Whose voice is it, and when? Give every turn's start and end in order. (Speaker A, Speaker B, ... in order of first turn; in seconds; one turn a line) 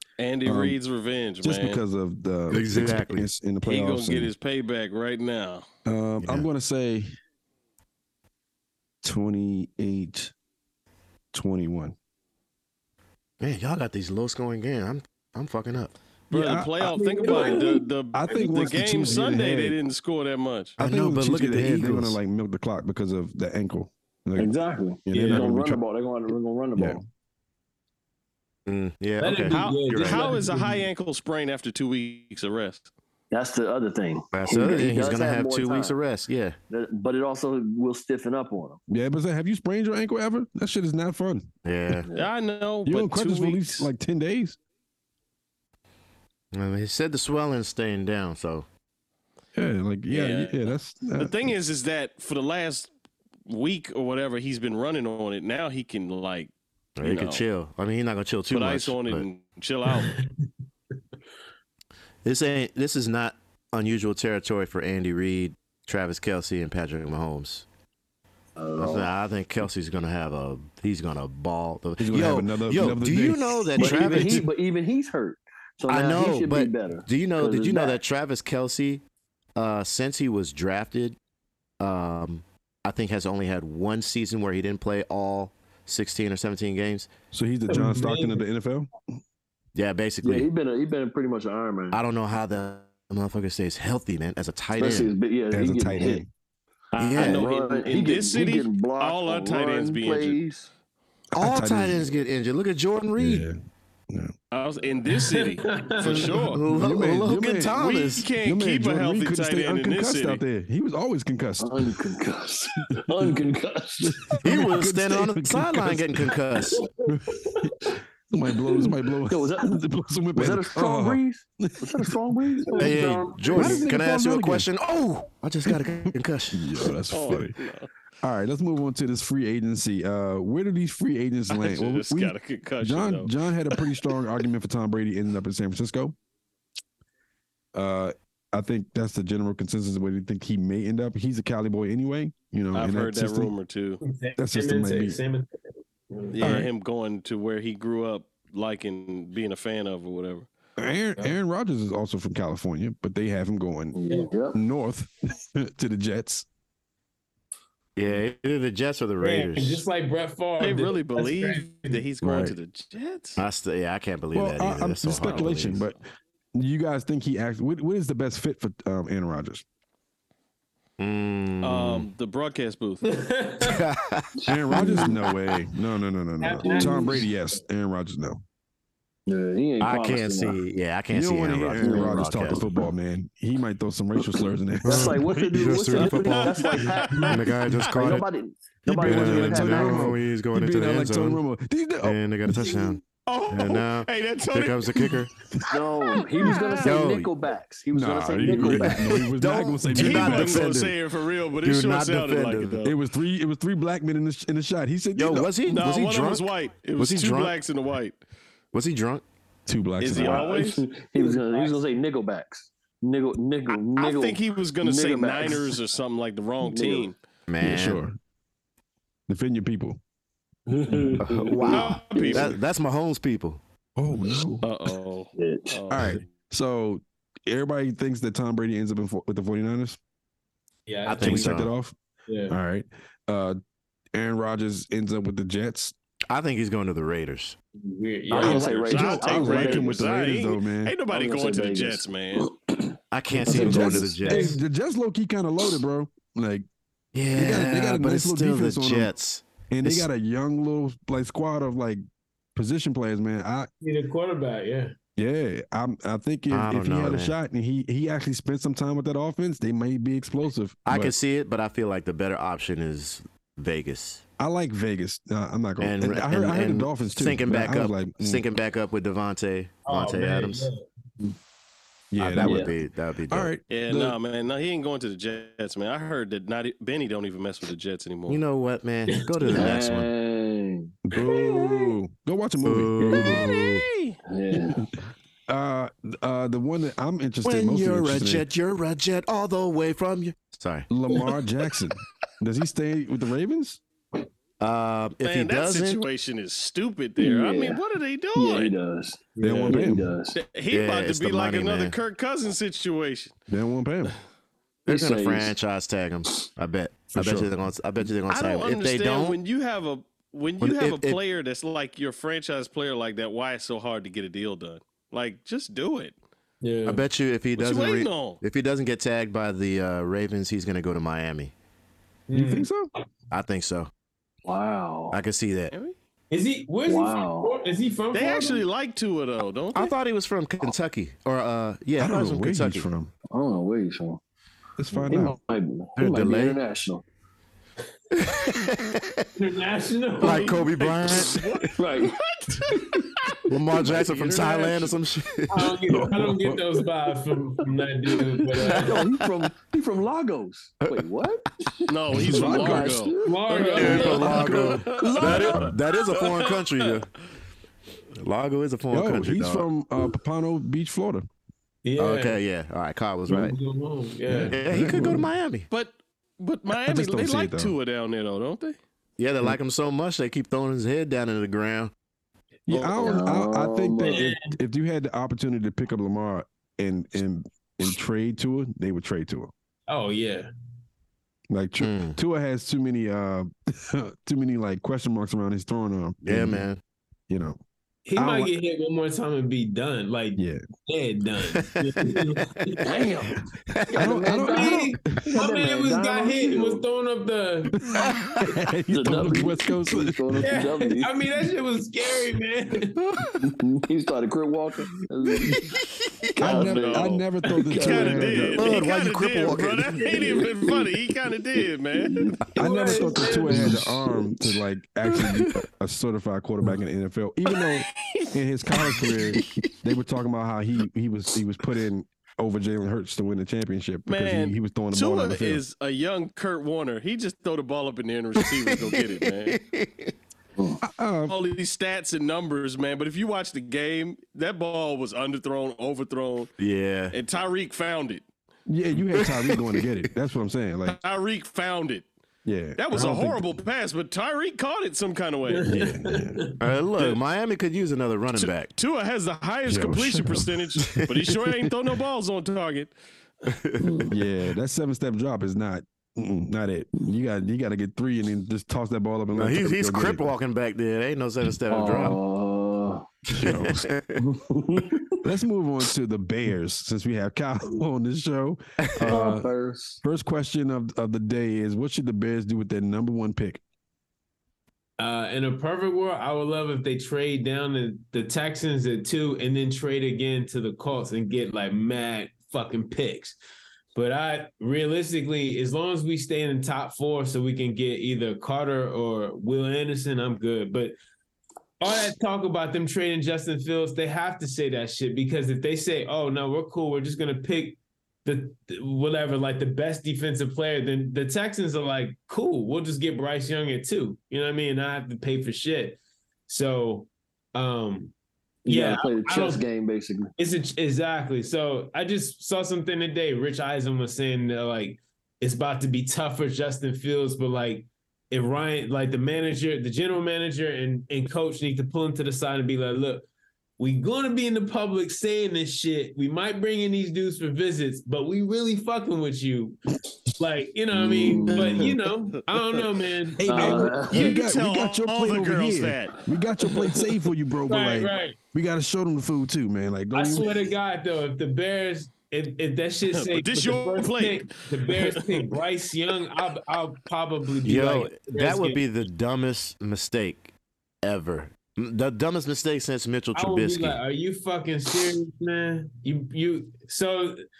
Speaker A: 0.2-1.8
Speaker B: 0.4-0.8
Speaker B: 1.4-4.3
Speaker C: 2.5-3.3
Speaker A: 3.6-5.7
Speaker B: 5.8-7.1
Speaker B: 9.0-10.3
Speaker B: 11.3-11.9
Speaker C: 13.4-15.9
Speaker B: 16.3-16.9
Speaker A: 16.3-20.8
Speaker D: 16.9-19.1
Speaker E: 17.2-17.6
Speaker B: 18.1-19.8
Speaker B: 20.8-25.8
Speaker C: 20.8-22.2
Speaker E: 24.4-27.0
Speaker D: 25.1-25.4
Speaker B: 26.8-27.0
Speaker C: 28.6-30.3
Speaker D: 29.2-30.9
Speaker A: 29.5-32.9
Speaker E: 33.3-36.0
Speaker C: 34.3-36.6
Speaker E: 36.7-38.8
Speaker B: 38.9-41.5
Speaker C: 41.6-42.1
Speaker E: 42.0-42.3
Speaker A: 42.1-43.9
Speaker B: 42.9-44.6
Speaker C: 46.5-48.6
Speaker B: 49.5-51.5
Speaker A: 50.1-52.9
Speaker A: 53.5-57.4
Speaker C: 57.0-59.2
Speaker A: 58.5-60.1
Speaker D: 59.9-60.3
Speaker C: 62.2-67.6
Speaker E: 68.6-69.1
Speaker C: 68.8-74.4
Speaker B: 72.0-74.4
Speaker E: 73.8-78.0
Speaker C: 75.9-79.0
Speaker C: 79.5-81.2
Speaker C: 81.8-87.1
Speaker B: 87.3-88.9
Speaker D: 87.7-88.4
Speaker C: 89.7-90.5
Speaker E: 90.2-92.0
Speaker C: 91.9-95.1
Speaker E: 94.8-96.2
Speaker B: 95.5-96.3
Speaker E: 96.9-100.7
Speaker C: 97.0-97.4
Speaker A: 97.1-100.4
Speaker B: 101.3-102.1
Speaker C: 101.3-103.4
Speaker B: 103.2-103.6
Speaker A: 104.5-106.6
Speaker D: 105.1-106.6
Speaker C: 106.5-108.3
Speaker B: 106.7-107.8
Speaker A: 107.8-110.4
Speaker B: 108.4-112.0
Speaker E: 111.6-114.3
Speaker B: 114.0-116.3
Speaker C: 114.4-116.8
Speaker B: 117.1-117.7
Speaker B: 118.3-122.4
Speaker E: 118.5-119.8
Speaker E: 120.3-123.0
Speaker D: 122.7-123.8
Speaker C: 122.8-126.7
Speaker B: 123.5-124.7
Speaker B: 126.5-127.6
Speaker A: 127.1-127.9
Speaker B: 128.2-136.2
Speaker A: 131.5-134.0
Speaker B: 137.7-143.5
Speaker A: 142.7-144.0
Speaker D: 144.0-145.5
Speaker B: 144.4-145.2
Speaker D: 146.1-146.4
Speaker A: 146.3-150.5
Speaker B: 146.4-146.7
Speaker B: 150.8-154.0
Speaker E: 153.9-154.6
Speaker B: 154.5-156.5
Speaker C: 157.9-159.8
Speaker D: 159.2-162.0
Speaker A: 160.6-163.4
Speaker B: 162.2-162.6
Speaker C: 163.4-165.8
Speaker B: 164.3-166.0
Speaker B: 166.5-169.6
Speaker C: 171.0-172.1
Speaker A: 171.6-173.0
Speaker D: 173.0-173.8
Speaker C: 173.6-175.3
Speaker E: 174.4-175.2
Speaker B: 174.5-178.4
Speaker D: 176.4-177.6
Speaker E: 176.6-177.2
Speaker E: 179.3-180.6
Speaker C: 179.8-182.7
Speaker B: 181.1-186.1
Speaker E: 181.8-182.9
Speaker E: 184.8-190.1
Speaker C: 184.8-188.2
Speaker A: 186.0-187.9
Speaker B: 188.8-193.0
Speaker C: 189.0-191.4
Speaker C: 192.0-195.3
Speaker A: 193.2-195.2
Speaker E: 195.7-199.1
Speaker A: 196.4-196.9
Speaker C: 196.8-197.3
Speaker B: 197.9-200.7
Speaker C: 198.5-201.0
Speaker A: 199.9-203.0
Speaker C: 201.6-202.8
Speaker B: 202.8-205.5
Speaker C: 205.1-207.6
Speaker A: 205.7-208.2
Speaker C: 208.7-209.2
Speaker B: 209.7-210.4
Speaker A: 210.0-210.8
Speaker E: 210.2-215.8
Speaker D: 211.2-211.7
Speaker A: 213.9-217.2
Speaker E: 216.6-217.1
Speaker C: 217.5-218.0
Speaker B: 217.6-218.2
Speaker B: 219.3-220.0
Speaker E: 220.7-222.5
Speaker B: 220.9-221.3
Speaker C: 221.2-223.6
Speaker A: 221.6-222.6
Speaker B: 223.9-224.6
Speaker A: 224.6-226.3
Speaker E: 225.3-225.8
Speaker B: 225.9-230.0
Speaker D: 230.9-231.6
Speaker C: 231.1-231.7
Speaker B: 231.2-231.9
Speaker D: 232.3-232.6
Speaker B: 232.5-233.6
Speaker B: 234.1-235.9
Speaker C: 236.3-237.6
Speaker D: 237.8-239.6
Speaker C: 238.3-238.7
Speaker E: 238.3-240.0
Speaker B: 238.4-240.9
Speaker A: 238.8-242.5
Speaker E: 241.1-242.9
Speaker C: 243.1-244.5
Speaker B: 243.3-246.7
Speaker E: 243.4-244.1
Speaker D: 244.2-244.6
Speaker C: 247.1-250.1
Speaker B: 247.3-249.1
Speaker B: 249.7-252.0
Speaker B: 252.5-253.7
Speaker D: 253.8-254.9
Speaker B: 255.2-261.1
Speaker C: 256.5-257.3
Speaker C: 260.9-264.2
Speaker B: 264.4-268.4
Speaker C: 265.8-270.7
Speaker D: 269.8-270.8
Speaker B: 272.1-272.7
Speaker C: 272.2-273.5
Speaker E: 272.4-272.7
Speaker B: 273.3-274.2
Speaker A: 273.7-278.4
Speaker C: 278.3-280.1
Speaker D: 279.1-279.4
Speaker E: 279.5-281.5
Speaker B: 281.1-283.4
Speaker C: 282.6-283.8
Speaker E: 283.0-283.4
Speaker A: 283.5-284.2
Speaker E: 284.3-284.9
Speaker B: 284.5-284.9
Speaker B: 285.5-288.4
Speaker C: 287.4-290.9
Speaker B: 290.9-293.8
Speaker C: 294.6-296.0
Speaker A: 295.2-298.7
Speaker E: 297.2-297.8
Speaker E: 298.3-300.4
Speaker D: 299.4-299.9
Speaker B: 299.4-300.1
Speaker A: 300.3-303.3
Speaker C: 300.7-301.9
Speaker B: 303.5-304.1
Speaker E: 304.9-305.6
Speaker C: 304.9-309.4
Speaker B: 307.1-307.5
Speaker A: 308.3-316.1
Speaker C: 310.6-311.2
Speaker D: 316.6-317.0
Speaker C: 316.9-321.5
Speaker A: 317.5-318.4
Speaker D: 322.3-322.7
Speaker B: 322.3-322.9
Speaker C: 323.3-323.9
Speaker E: 324.4-325.2
Speaker C: 325.1-325.7
Speaker D: 326.3-328.6
Speaker E: 326.9-327.6
Speaker A: 328.1-329.9
Speaker C: 329.7-332.9
Speaker B: 332.0-333.1
Speaker E: 333.3-334.2
Speaker B: 334.8-335.4
Speaker E: 335.1-337.0
Speaker C: 336.0-336.6
Speaker C: 338.1-339.3
Speaker D: 339.4-340.5
Speaker C: 340.2-341.4
Speaker A: 340.2-342.6
Speaker E: 341.8-342.2
Speaker C: 343.4-345.8
Speaker A: 343.7-345.0
Speaker D: 345.5-349.1
Speaker B: 345.9-346.6
Speaker C: 348.6-349.4
Speaker E: 348.6-355.8
Speaker C: 350.8-351.1
Speaker A: 351.9-356.9
Speaker B: 352.1-353.0
Speaker D: 353.2-354.6
Speaker C: 353.8-357.1
Speaker C: 358.1-359.7
Speaker B: 358.9-361.3
Speaker D: 361.8-362.4
Speaker C: 362.0-363.6
Speaker D: 363.3-364.6
Speaker B: 364.3-365.3
Speaker C: 364.4-365.7
Speaker A: 365.7-368.8
Speaker B: 366.7-367.7
Speaker C: 369.2-371.9
Speaker B: 372.7-379.5
Speaker E: 373.0-374.3
Speaker D: 374.1-374.6
Speaker D: 379.9-380.5
Speaker B: 381.5-386.6
Speaker C: 381.8-382.2
Speaker C: 386.2-386.8
Speaker B: 387.3-387.6
Speaker D: 388.1-392.9
Speaker B: 388.1-388.5
Speaker B: 390.4-390.6
Speaker C: 391.4-392.2
Speaker E: 392.8-393.4
Speaker C: 393.7-394.1
Speaker E: 393.9-396.8
Speaker B: 393.9-395.2
Speaker D: 394.3-397.8
Speaker B: 397.8-400.4
Speaker E: 398.9-401.1
Speaker D: 400.4-403.0
Speaker E: 403.4-405.6
Speaker B: 406.4-408.7
Speaker E: 406.4-407.2
Speaker A: 406.5-412.2
Speaker E: 407.7-408.5
Speaker C: 408.6-410.2
Speaker E: 410.0-410.8
Speaker E: 412.0-412.4
Speaker D: 412.6-413.7
Speaker B: 412.6-425.6
Speaker E: 413.3-414.3
Speaker A: 424.1-429.6
Speaker C: 428.4-430.1
Speaker B: 430.8-431.4
Speaker A: 431.3-436.5
Speaker C: 436.6-437.1
Speaker A: 437.1-438.2
Speaker B: 438.7-441.0
Speaker C: 439.1-439.8
Speaker A: 440.9-442.1
Speaker B: 442.4-443.4
Speaker A: 442.8-445.7
Speaker D: 442.9-443.2
Speaker D: 445.5-446.6
Speaker B: 445.6-446.4
Speaker C: 446.6-448.7
Speaker A: 448.4-452.9
Speaker B: 449.6-450.7
Speaker C: 453.4-454.1
Speaker E: 453.8-454.1
Speaker B: 454.1-460.3
Speaker C: 459.4-462.2
Speaker E: 461.7-463.1
Speaker C: 463.3-464.2
Speaker B: 463.3-463.9
Speaker E: 464.1-465.2
Speaker B: 465.2-469.5
Speaker C: 468.9-469.1
Speaker E: 469.1-470.0
Speaker B: 470.0-473.6
Speaker D: 475.0-483.4
Speaker D: 483.9-490.9
Speaker D: 491.8-508.1
Speaker E: 508.6-510.3
Speaker D: 508.6-509.6
Speaker D: 510.4-523.3
Speaker D: 523.8-529.8
Speaker D: 530.4-534.0
Speaker E: 530.9-532.0
Speaker B: 533.4-540.5
Speaker E: 533.5-534.3
Speaker A: 534.0-537.1
Speaker D: 537.6-538.4
Speaker D: 540.1-548.8
Speaker A: 543.1-545.5
Speaker C: 547.6-554.0
Speaker D: 553.3-557.4